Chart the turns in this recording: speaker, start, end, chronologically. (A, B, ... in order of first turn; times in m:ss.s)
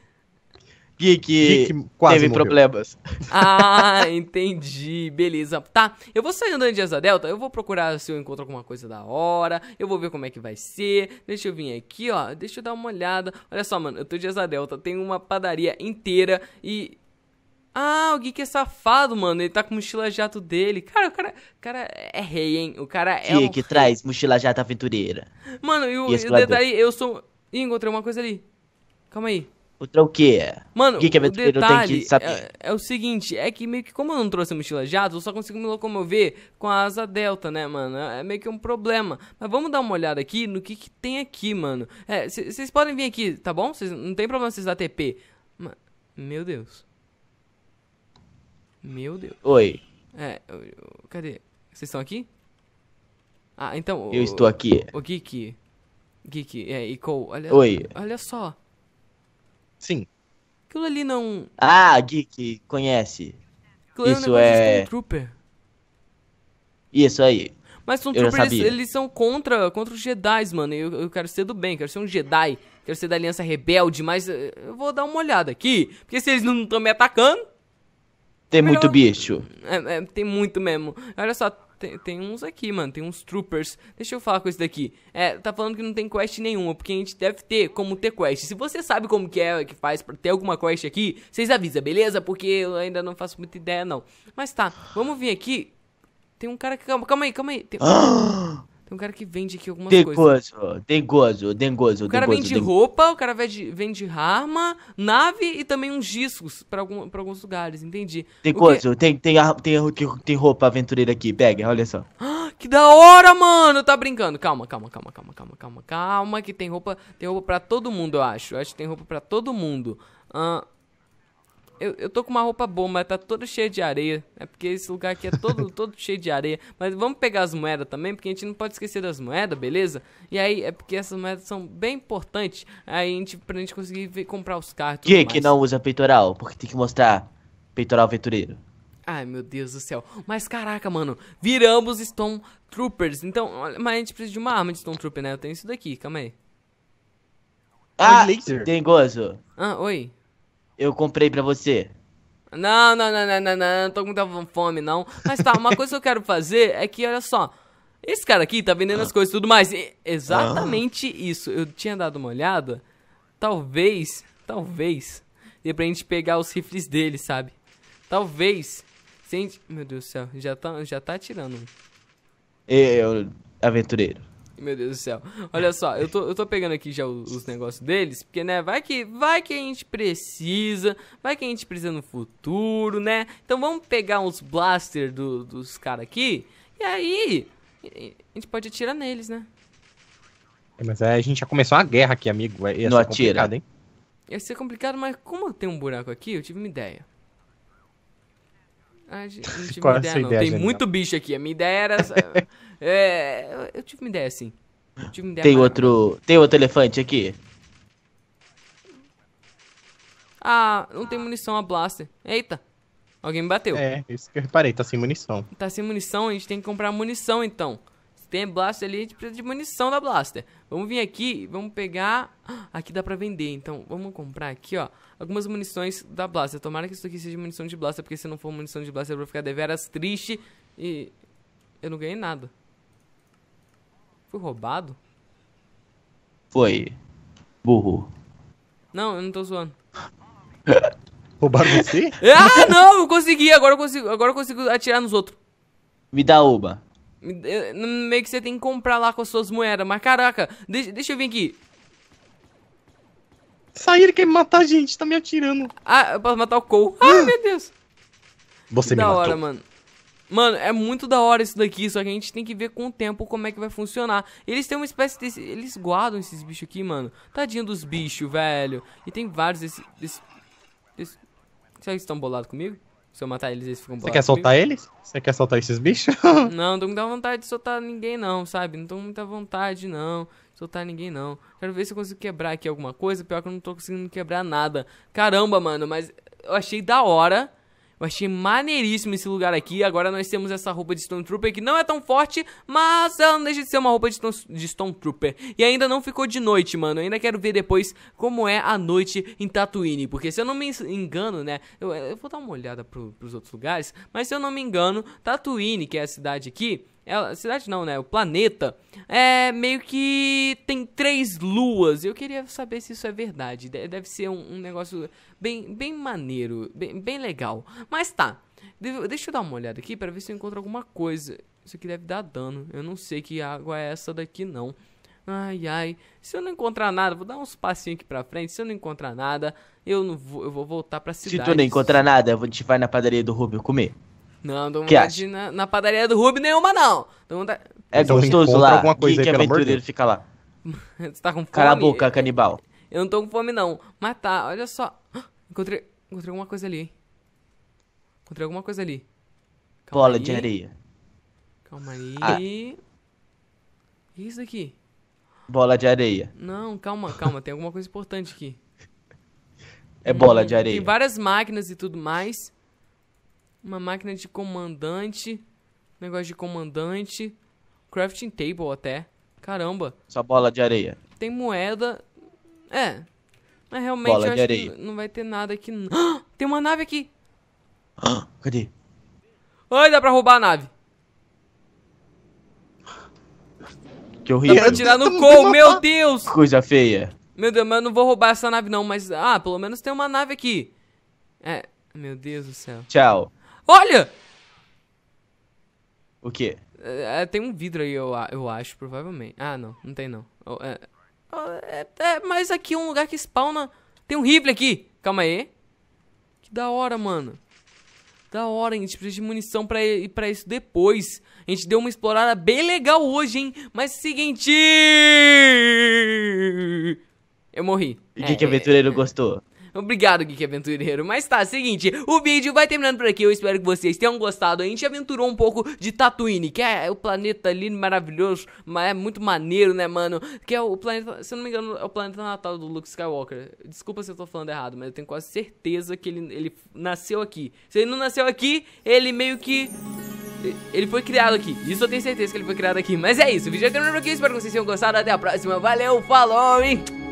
0:01.0-0:03.0 A
0:01.4-0:02.6 B
0:03.3-0:17.0 C
0:17.7-0:23.9 C
0:23.2-0:25.3 A
0:25.6-0:28.4 C
0:26.1-0:26.6 A
0:29.1-0:29.5 C
0:29.8-0:32.4 A
0:30.7-0:46.8 C
0:48.8-0:49.4 C
0:49.4-0:49.8 A
0:50.1-0:52.3 C
0:53.6-0:55.6 C
0:54.1-0:54.9 A
0:56.2-0:58.5 C
0:57.5-0:57.9 A
0:59.8-1:00.1 B
1:00.7-1:01.5 C
1:01.6-1:03.4 A
1:03.9-1:05.3 C
1:04.0-1:04.9 A
1:06.9-1:07.5 A
1:07.8-1:17.4 C
1:08.1-1:08.7 A
1:18.5-1:19.4 A
1:18.6-1:35.7 C
1:36.4-1:38.1 C
1:37.8-1:38.6 A
1:38.8-1:40.3 C
1:39.9-1:42.7 A
1:42.1-1:48.8 C
1:48.4-1:52.0 A
1:52.2-2:00.6 C
2:01.8-2:15.5 C
2:15.0-2:18.6 A
2:19.1-2:26.3 C
2:28.0-2:29.4 A
2:28.0-2:28.7 B
2:29.6-2:30.1 C
2:30.8-2:31.9 A
2:32.5-2:37.5 C
2:38.0-2:42.8 C
2:40.3-2:40.8 A
2:43.4-2:47.5 C
2:48.1-2:51.7 C
2:52.7-2:54.2 A
2:54.6-3:09.5 C
3:10.8-3:13.6 B
3:12.8-3:13.5 A
3:14.3-3:17.0 C
3:19.1-3:24.5 C
3:19.6-3:20.8 B
3:25.1-3:26.0 C
3:25.4-3:27.4 A
3:30.4-3:32.6 C
3:33.2-3:33.8 C
3:33.7-3:35.5 B
3:35.5-3:51.1 C
3:51.8-3:52.5 C
3:54.3-3:55.0 C
3:56.5-3:57.0 A
3:57.6-3:58.1 A
3:58.9-3:59.7 C
4:01.4-4:02.7 B
4:02.2-4:05.4 C
4:06.1-4:06.8 A
4:07.2-4:11.6 C
4:13.7-4:15.7 B
4:15.8-4:17.7 C
4:17.0-4:17.3 B
4:18.7-4:19.4 B
4:18.8-4:19.6 C
4:20.3-4:30.2 C
4:31.8-4:34.5 C
4:34.0-4:36.5 B
4:36.4-5:32.0 C
5:31.2-5:33.9 A
5:34.4-5:38.4 C
5:34.9-5:35.2 A
5:37.9-5:40.2 A
5:38.0-5:39.8 B
5:40.6-5:46.9 C
5:41.5-5:42.6 A
5:48.3-5:49.0 C
5:49.8-5:50.5 C
5:49.9-5:50.7 A
5:51.7-5:52.8 C
5:54.2-5:54.7 C
5:55.5-5:56.3 A
5:56.4-5:58.6 C
6:00.0-6:00.9 A
6:00.1-6:02.5 C
6:03.6-6:05.4 C
6:06.0-6:07.3 C
6:07.9-6:09.9 C
6:10.1-6:11.0 A
6:11.2-6:12.0 C
6:12.7-6:13.0 C
6:13.7-6:17.1 C
6:14.0-6:14.7 A
6:18.0-6:18.7 A
6:19.7-6:20.7 C
6:24.2-6:24.8 A
6:24.5-6:26.3 C
6:24.5-6:25.8 B
6:26.3-6:27.1 A
6:27.4-6:30.7 C
6:31.4-6:32.9 C
6:32.9-6:33.3 A
6:33.7-6:34.1 C
6:36.2-6:36.6 A
6:36.8-6:45.5 C
6:46.4-6:47.4 C
6:48.3-6:56.9 C
6:57.5-6:59.0 C
6:58.2-6:59.4 A
6:59.7-7:19.7 C
7:20.4-7:26.9 C